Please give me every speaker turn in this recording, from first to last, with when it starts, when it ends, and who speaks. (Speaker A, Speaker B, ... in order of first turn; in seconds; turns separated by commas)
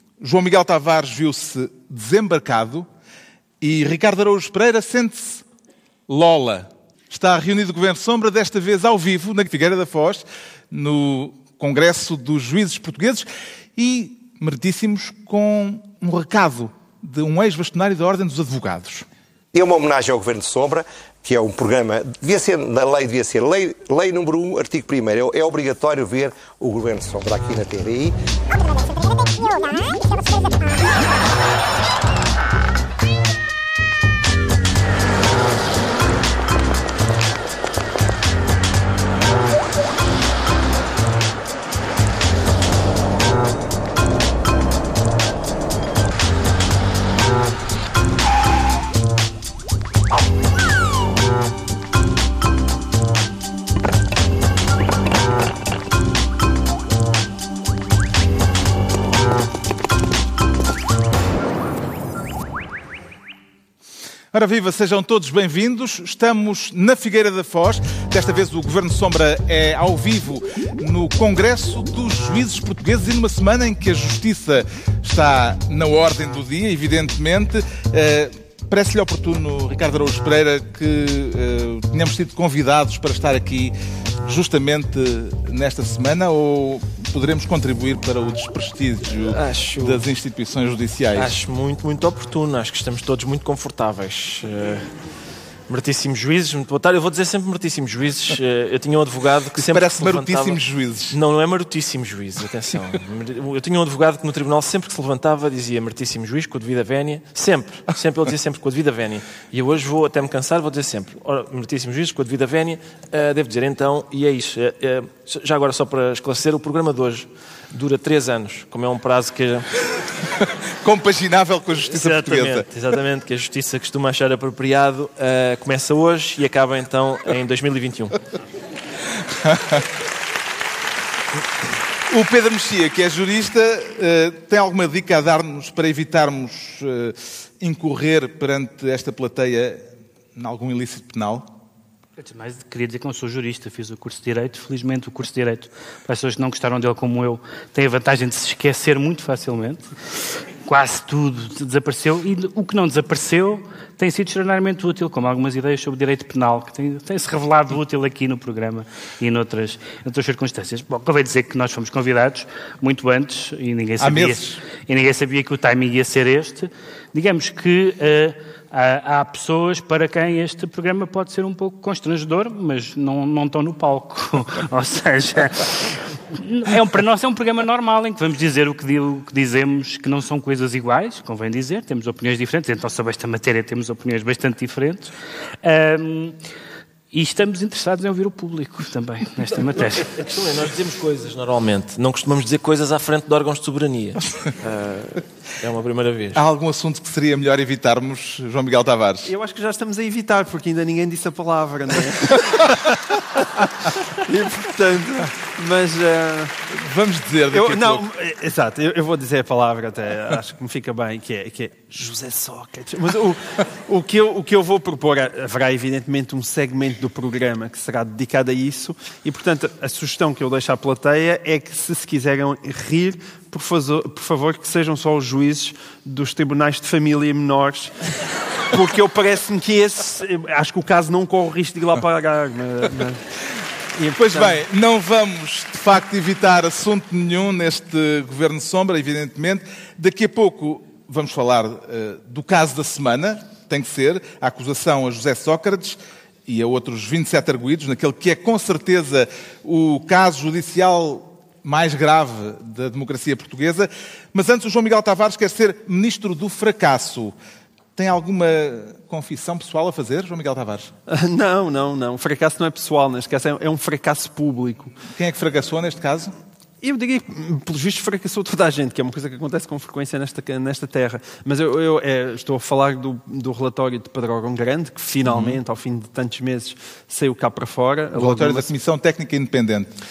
Speaker A: 0.2-2.9, Speaker A: 3.6-5.4, Speaker A: 6.1-19.1, Speaker B: 19.5-28.1, Speaker B: 29.4-29.7, Speaker A: 64.3-91.3, Speaker C: 89.2-90.0, Speaker C: 91.2-94.9, Speaker C: 95.7-100.6, Speaker A: 99.6-101.2, Speaker C: 101.1-119.7, Speaker A: 120.8-122.7, Speaker C: 121.8-128.2, Speaker A: 129.4-129.8, Speaker A: 132.1-139.8, Speaker A: 140.3-141.5, Speaker D: 142.2-149.9, Speaker D: 150.6-186.3, Speaker A: 164.0-164.6, Speaker D: 187.1-190.2, Speaker C: 189.9-196.4, Speaker A: 196.3-199.3, Speaker E: 199.2-206.6, Speaker A: 206.7-208.0, Speaker E: 207.5-228.1, Speaker E: 228.6-233.2, Speaker E: 233.9-234.6, Speaker A: 234.2-257.3, Speaker A: 257.9-260.9, Speaker E: 261.1-265.0, Speaker A: 265.1-266.3, Speaker E: 266.8-278.7, Speaker A: 275.3-275.6, Speaker A: 278.1-279.9